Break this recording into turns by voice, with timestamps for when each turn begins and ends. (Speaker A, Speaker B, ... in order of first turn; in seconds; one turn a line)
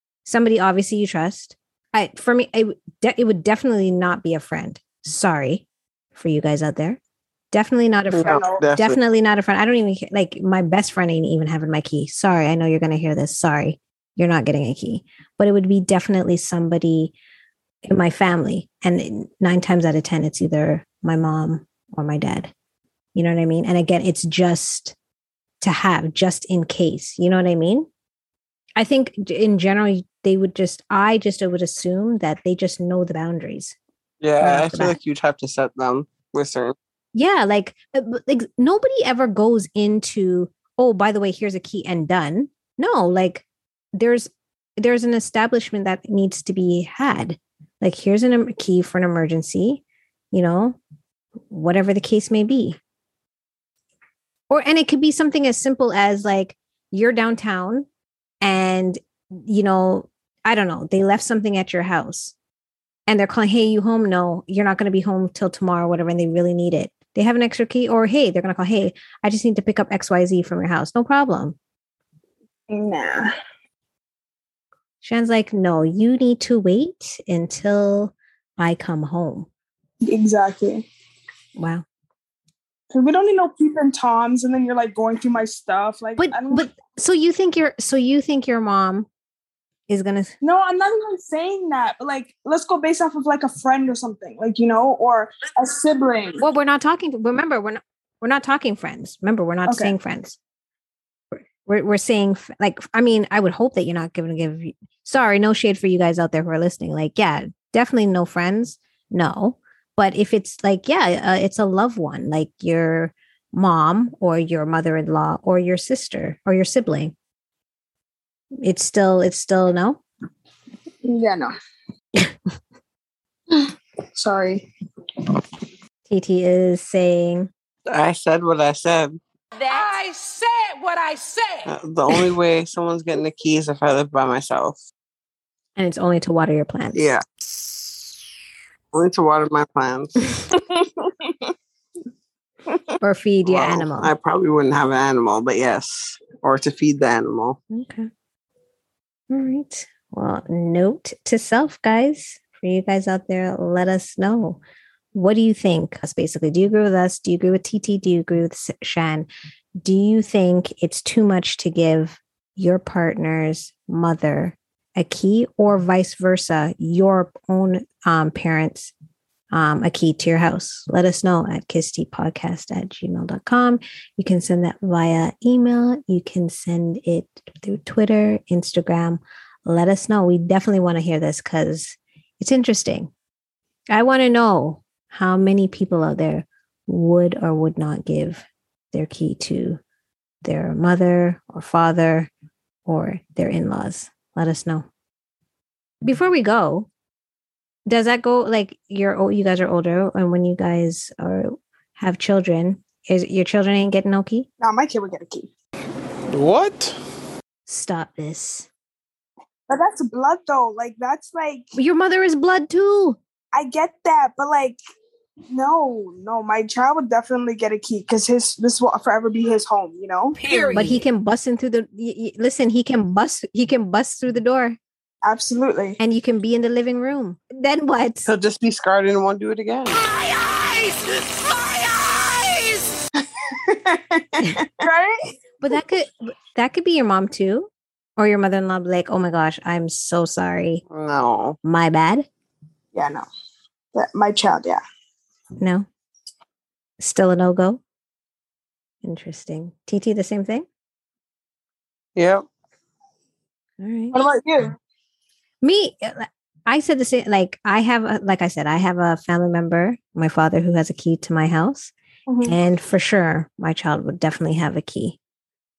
Speaker A: 0.2-7.0
Speaker A: 7.5-17.1
Speaker B: 8.1-9.0
Speaker C: 8.2-8.6
Speaker A: 17.9-22.5
Speaker A: 23.1-24.9
Speaker A: 25.6-27.9
Speaker A: 28.8-33.7
Speaker B: 34.2-36.8
Speaker A: 34.4-35.0
Speaker A: 37.1-50.8
Speaker A: 51.5-52.8
Speaker A: 54.5-57.9
Speaker A: 58.4-62.3
Speaker A: 63.1-71.5
Speaker C: 72.7-73.3
Speaker A: 75.0-79.5
Speaker C: 80.0-80.8
Speaker A: 81.5-81.8
Speaker C: 82.9-86.7
Speaker A: 86.2-89.1
Speaker A: 89.9-90.3
Speaker C: 90.4-96.4
Speaker A: 96.4-100.4
Speaker C: 99.7-99.9
Speaker A: 101.6-117.1
Speaker A: 118.6-120.0
Speaker C: 121.0-121.5
Speaker C: 123.5-124.7
Speaker A: 126.1-127.5
Speaker B: 127.9-129.2
Speaker D: 129.6-131.7
Speaker B: 131.7-134.8
Speaker A: 135.8-137.1
Speaker B: 136.9-137.2
Speaker B: 138.9-140.1
Speaker C: 140.5-141.5
Speaker A: 143.0-144.1
Speaker B: 143.4-147.6
Speaker A: 147.7-148.1
Speaker A: 149.3-154.6
Speaker A: 155.1-159.3
Speaker A: 159.8-168.9
Speaker A: 169.5-183.1
Speaker A: 183.9-189.8
Speaker A: 190.4-192.3
Speaker A: 192.8-194.8
Speaker A: 196.0-196.9
Speaker A: 197.9-204.5
Speaker C: 204.6-205.5
Speaker E: 206.3-206.9
Speaker A: 207.7-208.7
Speaker C: 209.7-211.7
Speaker A: 211.8-213.2
Speaker C: 213.5-214.8
Speaker C: 215.5-220.4
Speaker D: 220.3-221.0
Speaker A: 220.7-224.8
Speaker C: 225.2-226.0
Speaker A: 226.0-228.3
Speaker B: 228.2-230.0
Speaker E: 230.2-232.8
Speaker C: 233.4-235.3
Speaker A: 235.6-240.8
Speaker B: 240.9-241.6
Speaker A: 241.6-242.3
Speaker C: 242.9-243.2
Speaker C: 243.9-244.8
Speaker A: 245.6-245.9
Speaker A: 247.0-247.8
Speaker A: 249.0-250.7
Speaker B: 252.2-252.4
Speaker A: 253.8-254.2
Speaker C: 254.1-254.8
Speaker A: 255.6-261.9
Speaker C: 262.3-262.6
Speaker A: 262.4-265.2